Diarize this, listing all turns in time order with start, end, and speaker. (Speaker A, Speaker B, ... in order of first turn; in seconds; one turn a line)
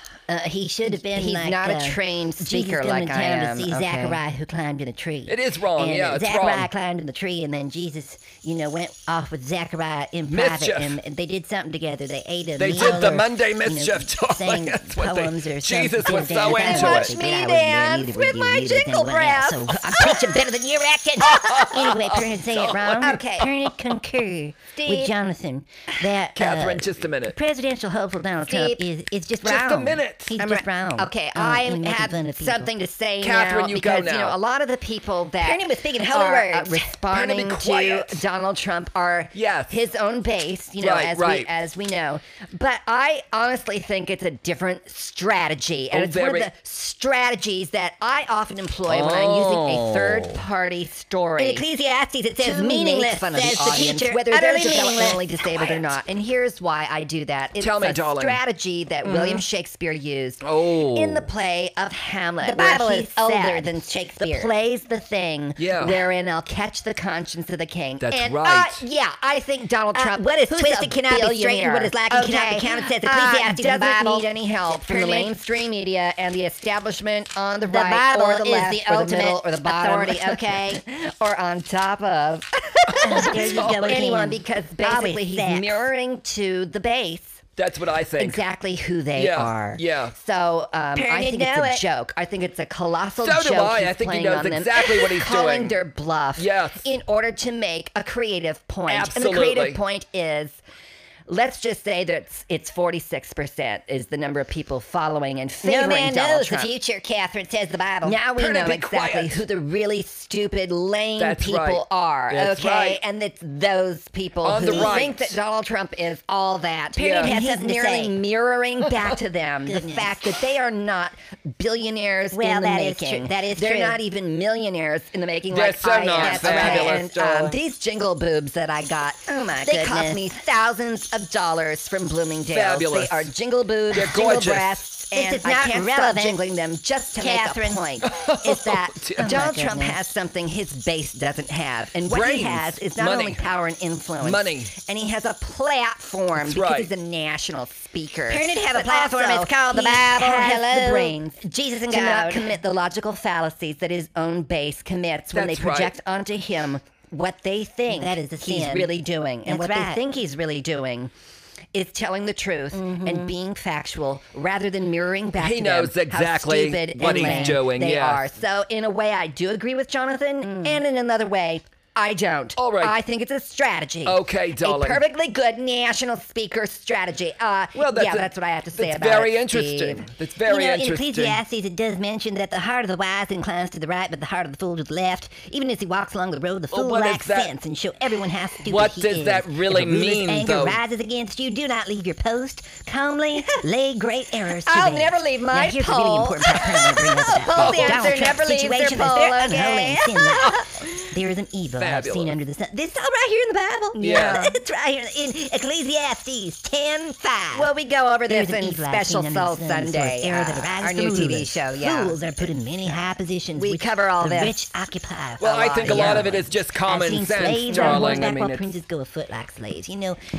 Speaker A: 0.3-32.7
Speaker B: 0.9-4.2
Speaker C: 5.3-6.7
Speaker C: 10.3-11.0
Speaker C: 12.6-17.2
Speaker B: 16.5-20.2
Speaker C: 21.2-23.2
Speaker B: 23.0-23.5
Speaker B: 24.7-25.1
Speaker C: 26.4-27.4
Speaker B: 28.5-28.9
Speaker C: 29.4-30.4
Speaker B: 30.4-51.7
Speaker C: 33.2-34.4
Speaker A: 35.4-36.9
Speaker C: 37.0-38.2
Speaker C: 39.3-39.8
Speaker C: 40.8-41.5
Speaker C: 45.9-46.5
Speaker C: 48.9-50.4
Speaker A: 51.4-56.0
Speaker B: 52.4-64.5
Speaker C: 57.6-58.4
Speaker C: 59.0-59.4
Speaker C: 60.4-61.3
Speaker A: 62.4-65.2
Speaker B: 65.2-87.4
Speaker C: 65.6-66.1
Speaker C: 68.0-68.9
Speaker A: 69.9-75.3
Speaker A: 77.7-80.4
Speaker C: 82.9-83.8
Speaker A: 83.0-85.9
Speaker C: 87.6-88.5
Speaker B: 88.2-100.6
Speaker C: 89.2-90.2
Speaker A: 91.0-91.8
Speaker C: 93.2-95.8
Speaker C: 96.4-96.9
Speaker C: 98.9-99.8
Speaker B: 101.3-161.1
Speaker A: 105.6-107.0
Speaker A: 108.0-108.8
Speaker C: 108.4-109.4
Speaker C: 111.2-113.0
Speaker C: 114.4-115.4
Speaker A: 114.7-115.0
Speaker C: 117.0-117.3
Speaker A: 117.2-118.2
Speaker A: 119.7-120.2
Speaker A: 122.3-124.0
Speaker C: 125.5-127.6
Speaker A: 126.2-127.0
Speaker A: 129.6-130.2
Speaker C: 132.5-133.3
Speaker C: 133.9-134.8
Speaker A: 135.1-136.4
Speaker A: 137.2-138.5
Speaker C: 138.0-139.3
Speaker A: 139.2-140.0
Speaker C: 142.1-143.5
Speaker C: 144.2-144.8
Speaker C: 146.3-146.9
Speaker A: 148.3-152.6
Speaker C: 155.3-155.9
Speaker A: 157.9-158.9
Speaker A: 159.5-160.0
Speaker B: 161.7-180.1
Speaker A: 162.7-163.3
Speaker C: 165.4-168.2
Speaker A: 166.9-167.7
Speaker A: 170.4-170.8
Speaker C: 172.6-173.0
Speaker C: 174.1-175.0
Speaker C: 177.8-181.4
Speaker A: 180.5-207.7
Speaker C: 186.7-187.5
Speaker C: 188.7-190.8
Speaker B: 194.6-200.8
Speaker C: 197.6-198.1
Speaker C: 201.8-202.4
Speaker C: 204.0-204.4
Speaker B: 204.0-204.6
Speaker B: 207.6-213.0
Speaker A: 208.3-220.2
Speaker B: 213.6-214.6
Speaker C: 215.4-218.8
Speaker B: 215.4-216.3
Speaker B: 217.7-218.3